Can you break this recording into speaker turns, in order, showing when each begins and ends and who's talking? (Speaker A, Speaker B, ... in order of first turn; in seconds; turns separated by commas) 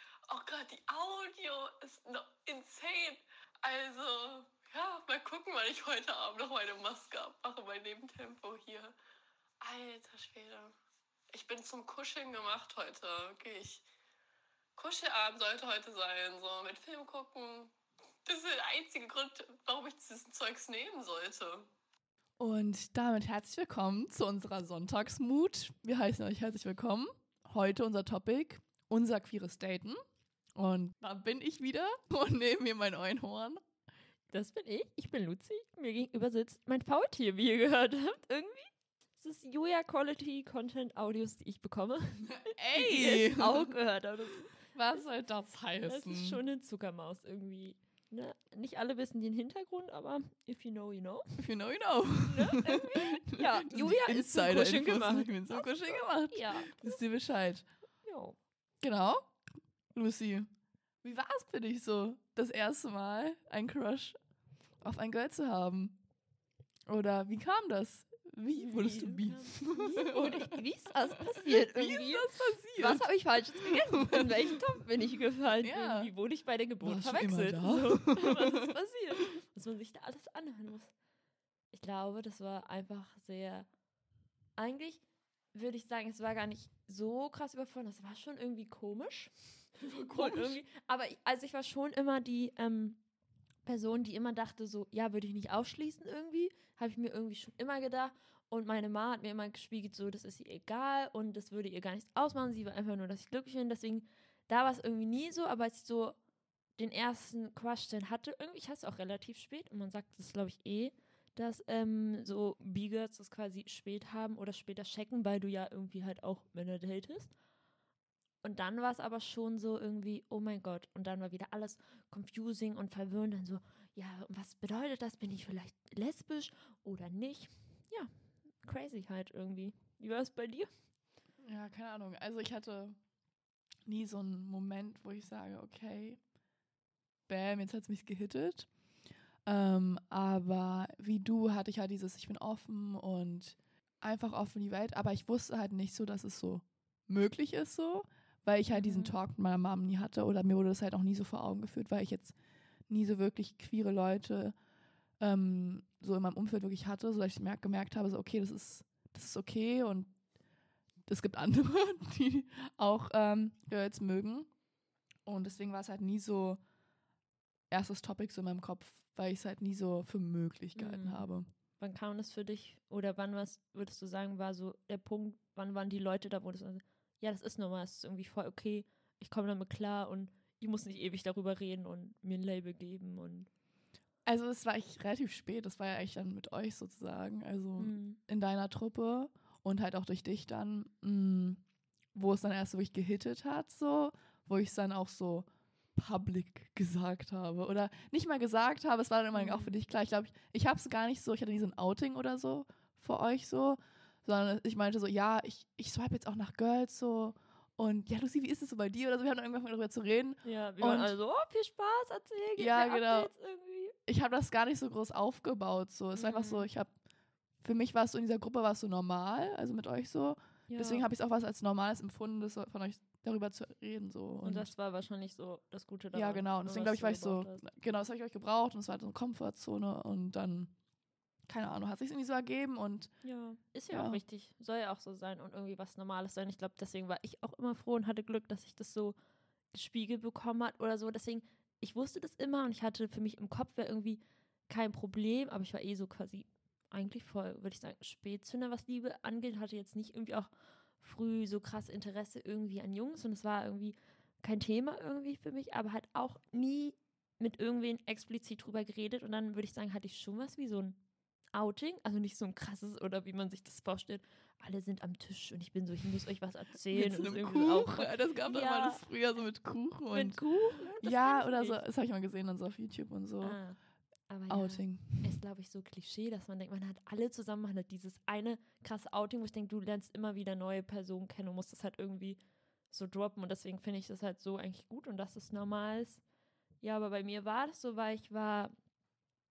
Speaker A: 0.3-9.0, Speaker A: 9.6-10.7, Speaker A: 11.3-13.8, Speaker A: 14.8-17.7, Speaker A: 18.3-21.7, Speaker B: 22.4-30.0, Speaker B: 30.6-33.6, Speaker C: 34.3-45.0, Speaker B: 42.3-43.8, Speaker B: 44.5-46.4, Speaker C: 45.9-51.3, Speaker B: 51.4-57.7, Speaker C: 52.2-57.0, Speaker C: 58.0-58.4, Speaker B: 58.8-59.3, Speaker B: 59.9-60.5, Speaker B: 61.0-64.2, Speaker B: 64.8-66.0, Speaker B: 66.9-70.6, Speaker C: 68.6-80.9, Speaker B: 71.2-74.6, Speaker B: 75.6-76.1, Speaker B: 76.8-78.7, Speaker C: 81.7-83.7, Speaker C: 84.6-85.0, Speaker C: 85.5-93.0, Speaker B: 89.8-90.6, Speaker C: 93.7-106.2, Speaker C: 106.8-117.3, Speaker C: 118.4-130.7, Speaker B: 131.4-133.0, Speaker B: 133.9-136.2, Speaker B: 137.3-138.7, Speaker B: 139.5-152.3, Speaker C: 148.7-149.1, Speaker B: 152.9-154.6, Speaker B: 155.2-160.1, Speaker B: 161.1-164.5, Speaker B: 165.2-166.6, Speaker B: 167.7-171.5, Speaker C: 170.8-171.3, Speaker C: 171.8-183.5, Speaker B: 184.3-191.6, Speaker C: 187.8-188.2, Speaker B: 192.1-211.1, Speaker C: 199.3-199.8, Speaker C: 210.4-213.9, Speaker B: 212.6-213.3, Speaker B: 214.1-216.9, Speaker C: 216.2-216.7, Speaker B: 217.6-224.7, Speaker C: 220.7-221.1, Speaker C: 224.4-227.6, Speaker B: 226.1-230.7, Speaker B: 231.5-233.1, Speaker C: 233.2-239.2, Speaker B: 233.9-234.2, Speaker C: 239.7-261.0, Speaker C: 261.5-269.0, Speaker B: 266.9-270.4, Speaker C: 270.1-271.8, Speaker B: 271.0-273.6, Speaker C: 273.4-273.8, Speaker C: 274.3-282.4, Speaker B: 274.5-275.3, Speaker C: 282.9-286.2, Speaker C: 286.8-288.7